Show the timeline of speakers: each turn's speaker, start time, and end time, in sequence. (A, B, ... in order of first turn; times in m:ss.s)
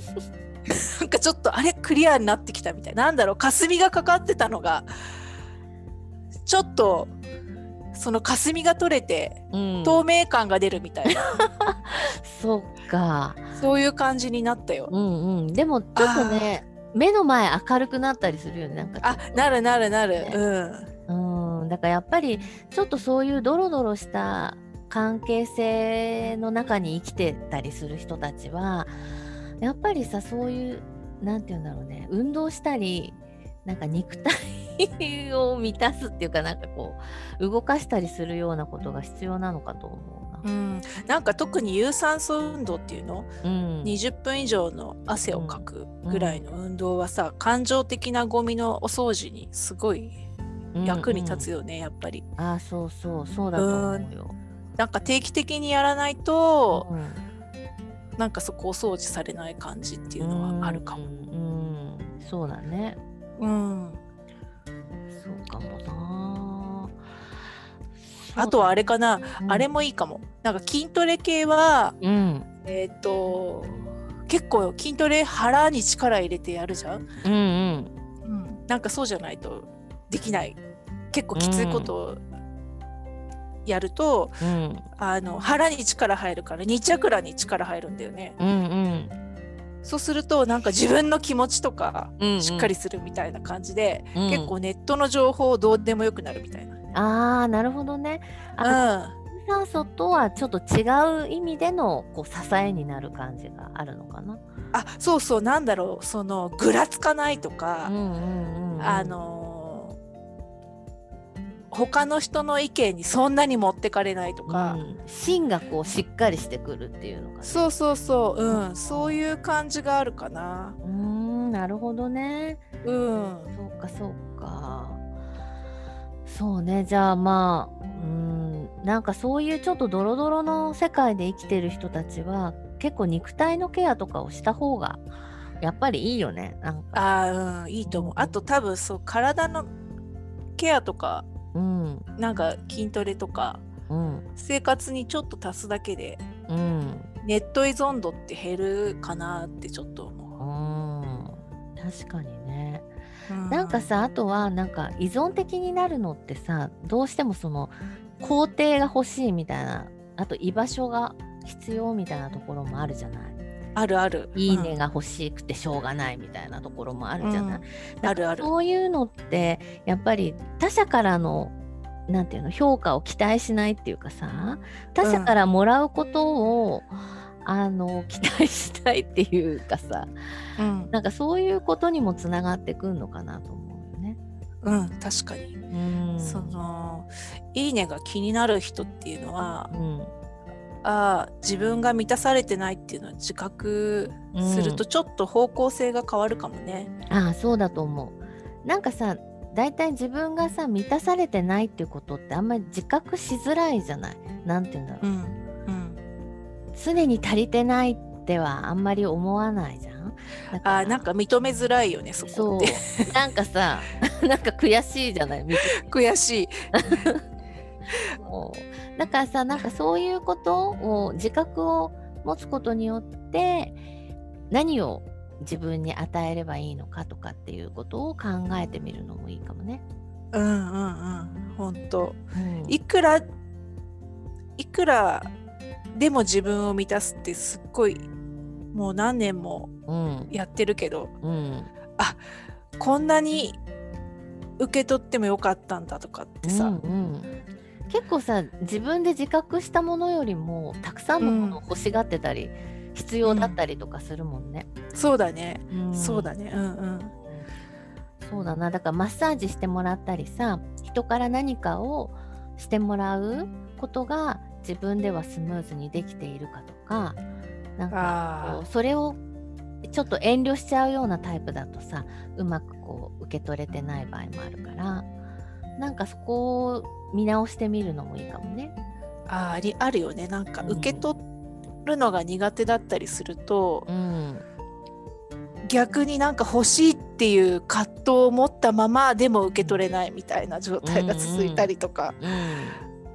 0:00.7-0:04.9 A
0:06.5-0:07.1 A
0:07.9-0:11.3 A
0:09.5-0:10.1 B
0:11.1-0:13.6 B
0:13.6-0:14.9 A
0:14.9-0:19.4 B
0:16.0-0:16.5 A
0:19.0-0:20.9 A
0:21.1-0:29.0 B
0:29.6-0:40.4 B
0:40.4-0:43.3 A
0:43.4-0:44.0 B
0:43.8-0:50.2 A
0:45.3-0:46.4 B
0:50.8-0:51.5 B
0:50.8-0:52.2 A
0:52.4-0:54.4 B
0:53.6-0:54.1 A
0:54.8-0:56.9 A
0:56.7-0:57.2 B
0:58.2-1:01.0 A
1:00.2-1:03.0 B
1:03.4-1:04.0 A
1:05.1-1:07.0 B
1:08.1-1:08.8 B
1:08.4-1:12.0 A
1:09.4-1:09.7 B
1:12.0-1:12.5 B
1:12.6-1:17.0 A
1:17.2-1:17.9 B
1:18.2-1:20.6 A
1:21.1-1:22.2 A
1:21.4-1:21.9 B
1:23.7-1:24.4 A
1:24.4-1:24.9 B
1:25.0-1:28.4 A
1:28.4-1:29.1 B
1:29.8-1:36.8 A
1:32.2-1:32.7 B
1:34.2-1:34.5 B
1:36.9-1:44.4 B
1:38.6-1:39.1 A
1:44.7-1:47.9 A
1:47.8-1:49.2 B
1:48.8-1:50.0 A
1:51.7-1:54.8 A
1:54.5-1:57.7 B
1:57.4-2:00.8 A
1:58.5-1:59.2 B
2:00.8-2:02.7 B
2:02.8-2:03.5 A
2:03.5-2:05.0 B
2:06.3-2:15.1 B
2:15.6-2:17.0 B
2:16.9-2:19.7 A
2:17.8-2:18.4 B
2:20.6-2:21.3 A
2:21.5-2:22.1 B
2:22.2-2:23.6 A
2:23.9-2:24.3 B
2:24.4-2:26.2 A
2:26.5-2:27.1 B
2:27.2-2:30.4 A
2:30.4-2:32.9 B
2:33.3-2:33.9 A
2:33.5-2:43.4 B
2:43.8-2:44.8 A
2:44.4-2:51.5 B
2:47.2-2:48.5 A
2:52.1-3:00.1 B
2:55.0-2:55.4 A
3:00.6-3:00.9 A
3:00.9-3:04.2 B
3:04.6-3:05.6 A
3:05.7-3:06.6 B
3:06.2-3:09.7 A
3:09.7-3:10.1 B
3:10.8-3:16.9 A
3:14.3-3:14.8 B
3:17.1-3:25.1 B
3:25.0-3:26.0 A
3:26.7-3:31.1 B
3:30.6-3:33.1 A
3:32.2-3:35.9 B
3:35.7-3:37.0 A
3:36.7-3:37.2 B
3:37.9-3:43.8 B
3:44.5-3:49.8 B
3:50.3-3:53.2 A
3:52.3-3:52.8 B
3:54.6-3:55.3 A
3:56.0-3:58.0 A
3:58.7-3:59.7 A
3:59.9-4:00.4 B
4:00.3-4:01.1 A
4:01.2-4:01.7 B
4:02.8-4:03.6 A
4:04.6-4:06.8 A
4:06.4-4:07.3 B
4:07.9-4:14.7 B
4:11.2-4:11.6 A
4:13.2-4:13.6 A
4:14.9-4:17.1 A
4:15.7-4:16.3 B
4:17.2-4:17.5 B
4:18.2-4:27.2 B
4:27.8-4:29.2 B
4:27.9-4:28.6 A
4:29.8-4:35.1 B
4:35.8-4:38.7 B
4:39.3-4:41.2 A
4:40.6-4:41.1 B
4:41.8-4:43.9 A
4:43.9-4:44.4 B
4:45.7-4:52.2 A
4:50.8-4:52.8 B